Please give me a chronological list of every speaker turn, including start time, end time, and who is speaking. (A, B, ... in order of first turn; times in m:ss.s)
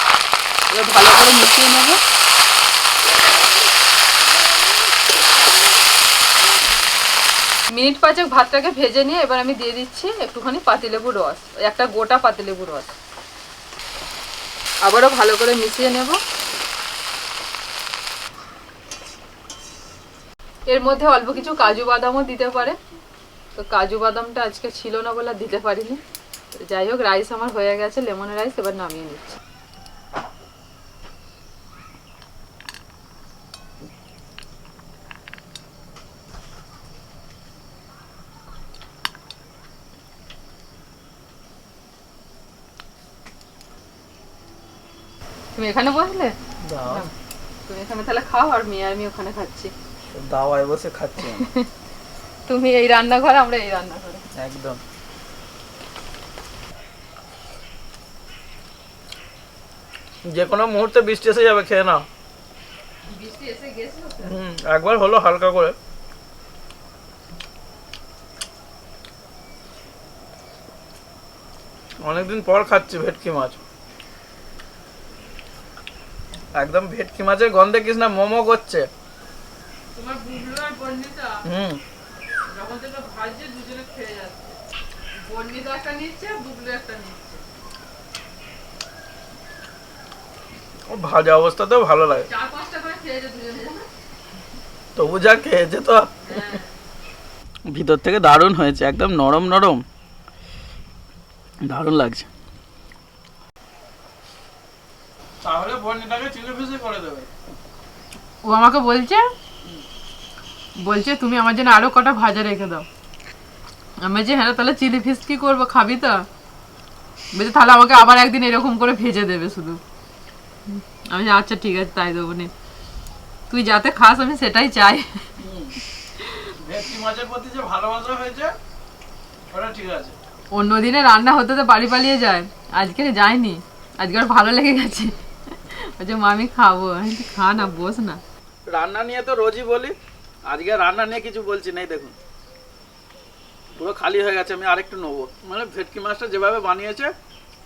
0:00.7-0:02.0 A
0:07.7-0:12.9 A
0:14.8-0:16.2 A
0:20.7-0:22.8 A
0:23.5-0:26.0 A
0:26.5-0:29.4 A
0:45.5-0:47.1 A
0:46.6-0:47.1 B
0:47.7-0:49.7 A
0:50.1-0:51.5 B
0:51.2-0:51.7 A
0:52.5-0:54.2 A
0:54.4-0:54.8 B
1:00.3-1:02.0 B
1:03.0-1:04.3 A
1:04.2-1:05.7 B
1:12.0-1:13.6 B
1:16.6-1:18.9 B
1:20.0-1:21.4 A
1:21.4-1:21.8 B
1:22.5-1:24.6 A
1:25.2-1:27.4 A
1:30.9-1:32.3 B
1:32.2-1:33.9 A
1:35.0-1:36.6 B
1:36.3-1:36.7 A
1:37.7-1:39.8 B
1:41.6-1:42.3 B
1:45.4-1:47.3 B
1:48.4-1:49.3 A
1:50.8-1:52.8 A
1:54.0-1:56.2 A
1:57.3-1:59.8 A
2:00.7-2:02.5 A
2:03.5-2:05.3 A
2:05.4-2:05.7 B
2:06.6-2:08.5 B
2:09.5-2:10.2 B
2:10.5-2:18.2 A
2:18.7-2:19.9 B
2:20.5-2:22.1 B
2:23.8-2:27.1 B